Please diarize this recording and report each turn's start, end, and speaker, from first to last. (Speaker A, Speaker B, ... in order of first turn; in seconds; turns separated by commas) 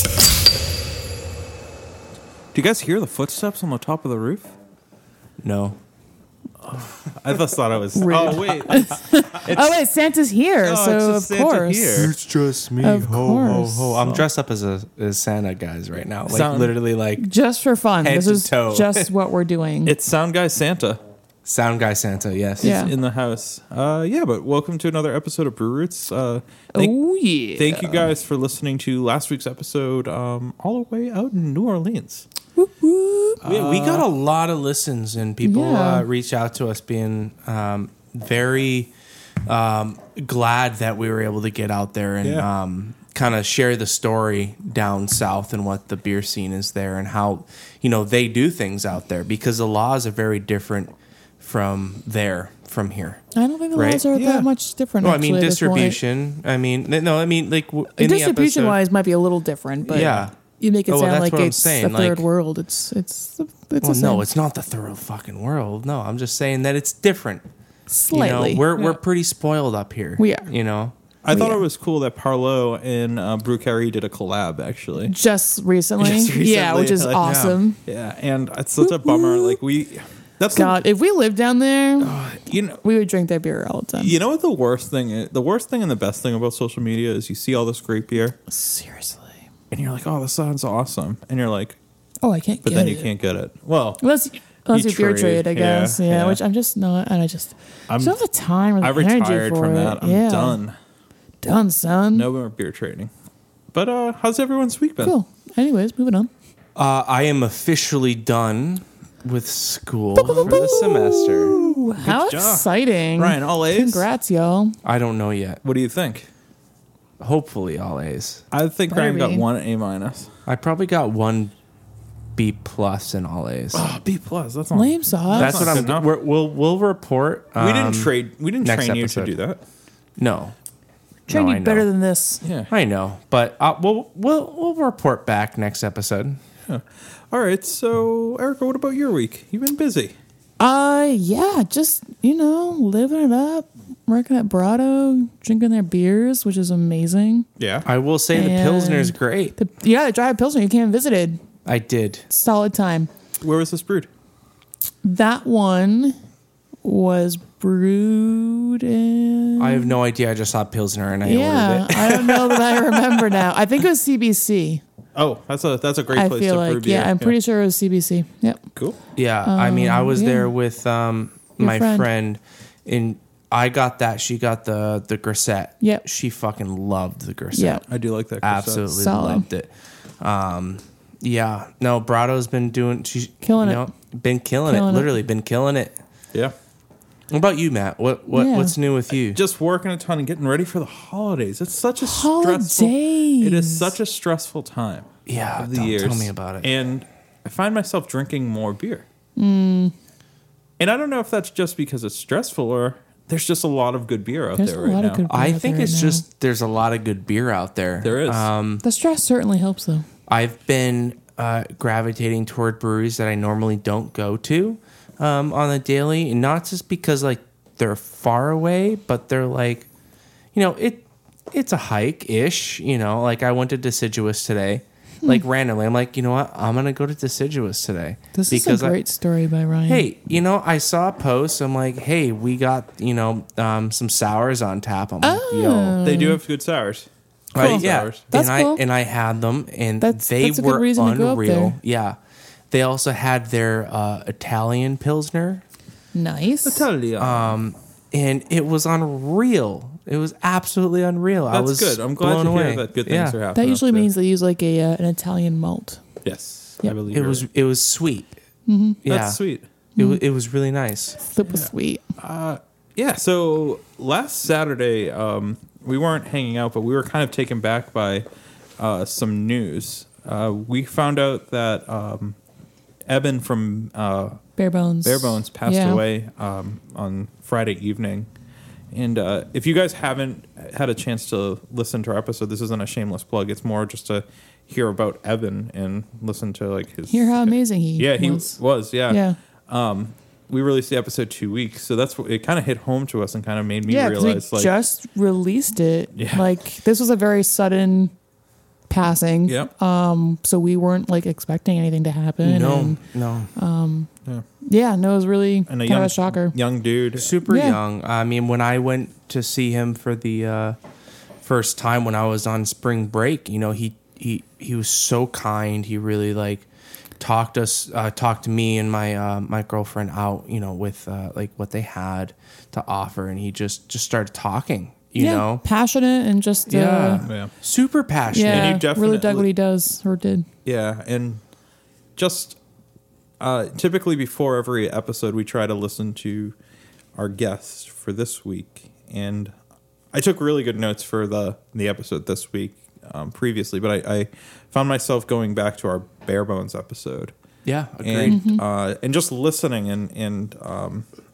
Speaker A: 2.5-4.5, Speaker B: 5.4-5.8, Speaker A: 6.6-9.8, Speaker C: 8.0-12.1, Speaker A: 10.6-12.1, Speaker B: 12.0-17.2, Speaker C: 12.8-14.1, Speaker A: 16.3-16.8, Speaker C: 17.2-19.9, Speaker B: 18.0-19.1, Speaker A: 19.9-21.0, Speaker B: 21.4-22.8, Speaker A: 22.6-27.0, Speaker C: 22.6-22.9, Speaker C: 26.7-28.1, Speaker A: 27.6-32.3, Speaker C: 32.6-33.5, Speaker A: 33.4-34.1, Speaker B: 33.5-38.9, Speaker C: 35.4-36.1, Speaker B: 39.4-53.2, Speaker C: 53.4-56.0, Speaker B: 53.8-54.0, Speaker A: 54.1-54.5, Speaker B: 55.0-58.8, Speaker C: 58.0-64.3, Speaker B: 59.9-60.3, Speaker B: 60.9-62.3, Speaker B: 63.8-67.5, Speaker C: 67.9-68.7, Speaker B: 68.1-71.0, Speaker A: 68.7-69.0, Speaker C: 70.2-70.5, Speaker A: 71.2-75.1, Speaker C: 71.3-71.6, Speaker C: 75.1-77.8, Speaker A: 76.0-80.8, Speaker B: 77.2-77.6, Speaker C: 78.8-79.6, Speaker C: 80.5-82.1, Speaker A: 82.0-82.8, Speaker C: 82.8-84.2, Speaker A: 84.0-88.4, Speaker C: 88.5-89.4, Speaker A: 89.7-91.8, Speaker C: 92.2-93.1, Speaker A: 92.6-94.0, Speaker C: 94.0-100.6, Speaker A: 94.7-96.4, Speaker A: 97.9-98.2, Speaker A: 98.8-100.8, Speaker C: 101.4-102.3, Speaker A: 102.1-103.1, Speaker A: 103.7-105.2, Speaker C: 105.0-106.3, Speaker B: 106.8-111.5, Speaker C: 110.2-114.8, Speaker A: 110.3-110.8, Speaker A: 111.4-114.1, Speaker B: 114.8-115.6, Speaker A: 115.6-116.3, Speaker B: 117.2-118.4, Speaker A: 118.5-120.3, Speaker C: 118.9-119.5, Speaker B: 120.5-121.5, Speaker B: 122.4-123.8, Speaker A: 123.7-126.1, Speaker C: 124.7-125.8, Speaker B: 125.3-129.3, Speaker A: 127.6-129.6, Speaker B: 130.2-130.6, Speaker B: 131.3-131.9, Speaker C: 131.3-132.4, Speaker A: 132.4-132.7, Speaker B: 132.7-136.4, Speaker A: 136.7-140.2, Speaker C: 140.6-147.5, Speaker A: 147.6-147.9, Speaker B: 147.9-149.6, Speaker C: 148.3-151.4, Speaker B: 151.7-152.3, Speaker C: 152.3-153.1, Speaker A: 153.4-154.1, Speaker C: 155.0-156.2, Speaker C: 156.8-159.9, Speaker B: 159.6-162.6, Speaker C: 161.2-164.8, Speaker A: 165.2-167.4, Speaker C: 166.1-168.6, Speaker B: 169.2-177.8, Speaker C: 169.4-170.5, Speaker C: 171.6-172.1, Speaker C: 177.5-177.8, Speaker A: 177.9-178.9, Speaker B: 178.4-186.0, Speaker C: 178.9-179.5, Speaker C: 183.4-183.9, Speaker C: 184.7-185.1, Speaker B: 187.3-189.4, Speaker C: 188.3-188.7, Speaker A: 189.2-199.1, Speaker C: 192.0-193.9, Speaker B: 195.3-196.7, Speaker C: 199.4-199.9, Speaker A: 200.8-205.2, Speaker C: 204.6-206.2, Speaker B: 205.3-208.8, Speaker A: 208.0-208.5, Speaker C: 208.8-210.1, Speaker B: 210.3-219.9, Speaker B: 220.5-229.0, Speaker C: 228.3-230.1, Speaker B: 229.9-236.0, Speaker C: 235.2-236.4, Speaker A: 236.0-238.2, Speaker B: 237.5-242.2, Speaker C: 237.6-238.8, Speaker C: 240.0-241.8, Speaker B: 242.7-245.6, Speaker C: 246.2-246.9, Speaker A: 246.7-247.6, Speaker B: 247.2-253.4, Speaker A: 251.5-254.1, Speaker C: 253.6-256.0, Speaker A: 256.2-257.5, Speaker B: 257.1-258.4, Speaker C: 258.7-259.0, Speaker B: 259.0-259.4, Speaker A: 259.1-259.6, Speaker B: 260.0-261.2, Speaker C: 261.2-262.0, Speaker A: 261.5-268.3, Speaker A: 268.8-272.4, Speaker A: 273.1-274.4, Speaker C: 274.6-276.0, Speaker A: 275.0-278.3, Speaker A: 278.9-294.7, Speaker C: 287.1-289.4, Speaker C: 293.9-298.1, Speaker A: 296.2-296.4, Speaker C: 298.9-303.0, Speaker B: 302.4-303.5, Speaker C: 303.6-304.1, Speaker C: 304.6-306.6, Speaker A: 305.7-307.4, Speaker B: 307.2-310.8, Speaker C: 307.5-307.8, Speaker B: 311.4-316.7, Speaker B: 317.2-325.6, Speaker C: 325.2-327.3, Speaker B: 326.7-328.8, Speaker A: 327.2-327.5, Speaker C: 328.3-330.5, Speaker A: 328.4-329.5, Speaker A: 330.6-331.4, Speaker A: 332.2-332.6, Speaker A: 333.4-336.5, Speaker A: 337.2-339.5, Speaker A: 340.1-347.3, Speaker B: 347.6-348.4, Speaker A: 348.0-351.1, Speaker C: 348.3-348.6